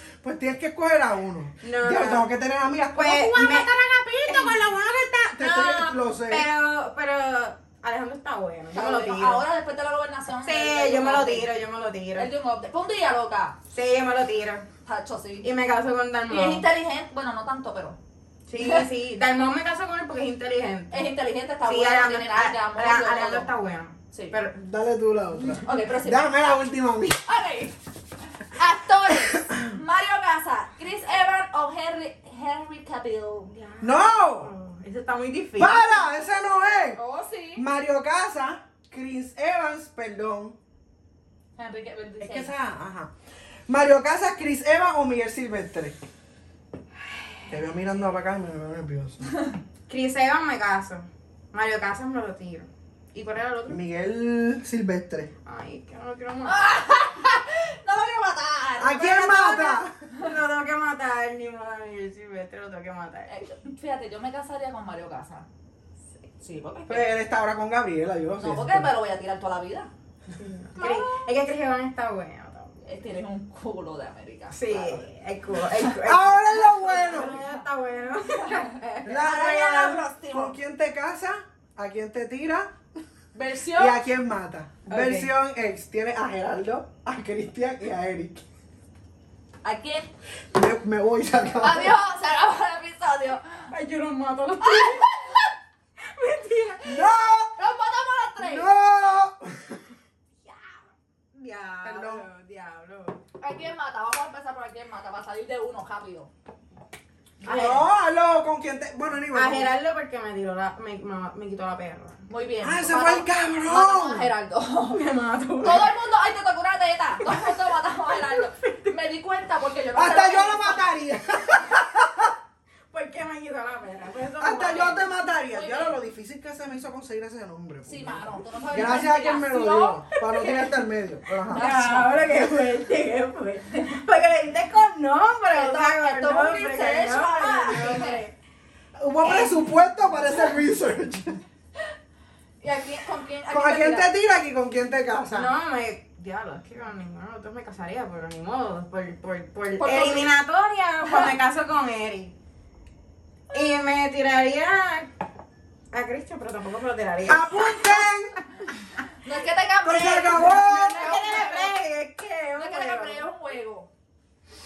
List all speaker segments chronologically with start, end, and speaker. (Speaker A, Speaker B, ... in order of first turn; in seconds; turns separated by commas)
Speaker A: 0.2-6.5, Speaker B: 1.6-2.3, Speaker B: 2.9-9.4, Speaker C: 8.7-11.5, Speaker B: 10.4-12.3, Speaker C: 12.2-13.6, Speaker B: 13.7-14.7, Speaker C: 14.8-15.5, Speaker B: 15.4-16.6, Speaker C: 16.3-18.0, Speaker B: 18.5-21.1, Speaker C: 18.6-18.9, Speaker C: 20.9-23.5, Speaker B: 21.6-24.6, Speaker A: 24.6-27.2, Speaker C: 25.5-26.3, Speaker C: 27.3-27.8, Speaker C: 28.4-33.5, Speaker A: 29.4-29.7, Speaker B: 33.5-36.1, Speaker A: 33.8-34.5, Speaker A: 35.6-37.0, Speaker C: 37.0-37.6, Speaker A: 37.5-40.5, Speaker C: 41.6-42.5, Speaker A: 42.2-43.1, Speaker A: 43.7-46.0, Speaker B: 47.1-47.5, Speaker A: 47.5-49.3, Speaker B: 49.9-53.8, Speaker A: 53.7-55.3, Speaker B: 55.4-56.6, Speaker C: 56.5-60.3, Speaker A: 58.8-59.9, Speaker B: 60.1-63.3, Speaker C: 63.3-65.5, Speaker C: 66.4-67.2, Speaker A: 66.9-68.9, Speaker C: 68.4-69.9, Speaker B: 70.3-72.8, Speaker C: 70.8-71.3, Speaker C: 72.8-75.1, Speaker B: 74.5-79.1, Speaker A: 75.7-77.4, Speaker C: 78.5-80.6, Speaker A: 79.0-82.7, Speaker C: 83.3-84.0, Speaker A: 83.7-88.4, Speaker B: 84.9-85.3, Speaker C: 89.6-90.1, Speaker A: 90.5-92.0, Speaker C: 91.5-93.7, Speaker B: 93.7-95.1, Speaker C: 94.6-95.5, Speaker B: 96.0-97.0, Speaker A: 96.8-97.6, Speaker C: 97.5-98.7, Speaker A: 98.4-99.9, Speaker B: 100.5-100.8, Speaker C: 101.3-101.7, Speaker B: 101.5-103.2, Speaker A: 101.8-102.2, Speaker C: 103.4-106.3, Speaker B: 107.4-107.8, Speaker C: 107.4-107.8, Speaker A: 107.5-109.7, Speaker B: 109.3-112.2, Speaker C: 112.3-115.0, Speaker A: 112.6-114.3, Speaker B: 114.9-115.9, Speaker C: 115.6-120.9, Speaker B: 117.2-119.0, Speaker A: 119.9-122.3, Speaker B: 122.9-125.0, Speaker A: 124.4-131.7, Speaker C: 125.5-126.0, Speaker C: 127.9-130.7, Speaker B: 130.2-130.8, Speaker C: 131.5-132.4, Speaker B: 131.5-138.3, Speaker C: 135.5-138.2, Speaker A: 138.9-141.4, Speaker C: 139.2-139.6, Speaker C: 142.6-144.1, Speaker A: 143.5-145.5, Speaker B: 145.3-152.3, Speaker C: 149.8-150.3, Speaker C: 151.1-151.3, Speaker B: 153.5-155.1, Speaker B: 155.9-157.8, Speaker A: 157.3-158.3, Speaker C: 159.2-161.7, Speaker A: 159.8-161.4, Speaker B: 160.2-163.3, Speaker C: 162.6-163.9